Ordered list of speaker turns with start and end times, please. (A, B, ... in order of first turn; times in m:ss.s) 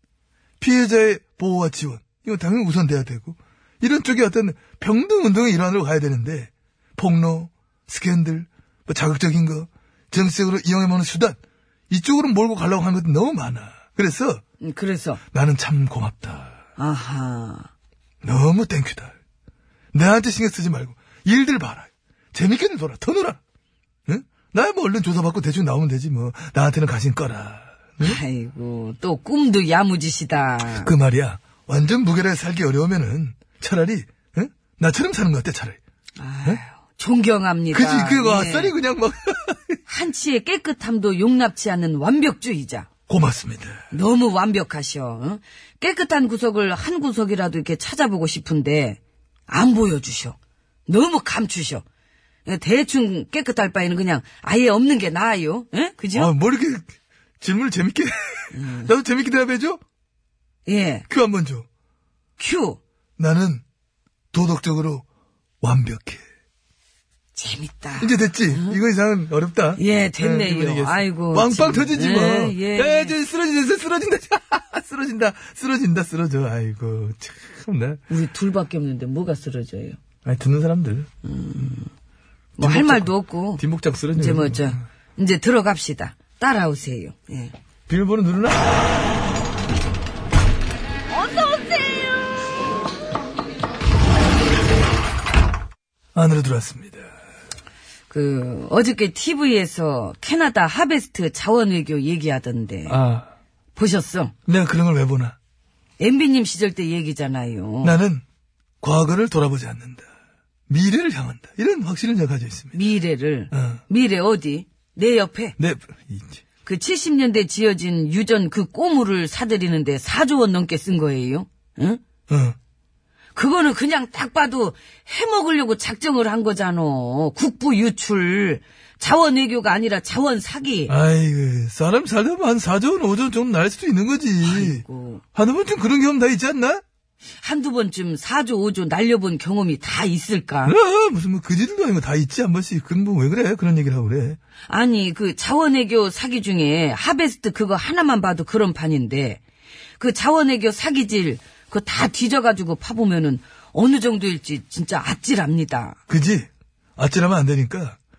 0:00.6-0:11.4 A
0:11.9-0:14.4 A
0:14.6-0:15.2 B
0:15.3-0:16.6 A
0:16.8-0:17.7 B
0:18.2-0:19.1 A
0:19.9-0:23.4 A
0:24.1-0:28.2 A
0:28.0-0:30.9 B
0:30.7-0:35.8 A
0:36.2-0:38.7 B
0:37.7-0:39.8 A
0:39.9-0:42.9 B
0:43.1-0:43.8 A
0:43.9-0:51.8 B
0:52.4-0:56.3 B
0:56.1-0:56.9 A
0:57.4-0:59.8 A
0:58.5-0:58.9 B
1:00.6-1:01.0 B
1:01.1-1:01.6 A
1:02.4-1:02.8 B
1:03.2-1:03.6 A
1:04.3-1:05.0 A
1:05.6-1:06.2 A
1:07.3-1:08.8 B
1:08.0-1:18.0 A
1:09.8-1:13.2 B
1:18.1-1:20.0 B
1:20.2-1:21.1 A
1:21.2-1:21.9 B
1:22.6-1:27.5 B
1:22.6-1:24.8 A
1:27.9-1:28.8 A
1:36.1-1:37.1 A
1:38.1-1:43.0 B
1:42.9-1:43.3 A
1:43.7-1:44.3 B
1:44.5-1:45.4 A
1:46.0-1:48.0 B
1:47.8-1:48.2 A
1:48.8-1:50.0 A
1:50.7-1:52.8 A
1:52.7-1:55.6 B
1:53.5-1:53.8 A
1:55.6-1:56.4 A
1:56.6-2:02.0 B
2:02.3-2:02.6 A
2:03.3-2:10.9 B
2:10.9-2:14.8 A
2:14.4-2:15.2 B
2:15.3-2:16.8 A
2:17.4-2:20.8 B
2:20.6-2:24.4 A
2:24.7-2:29.4 B
2:30.0-2:36.0 B
2:36.1-2:38.0 A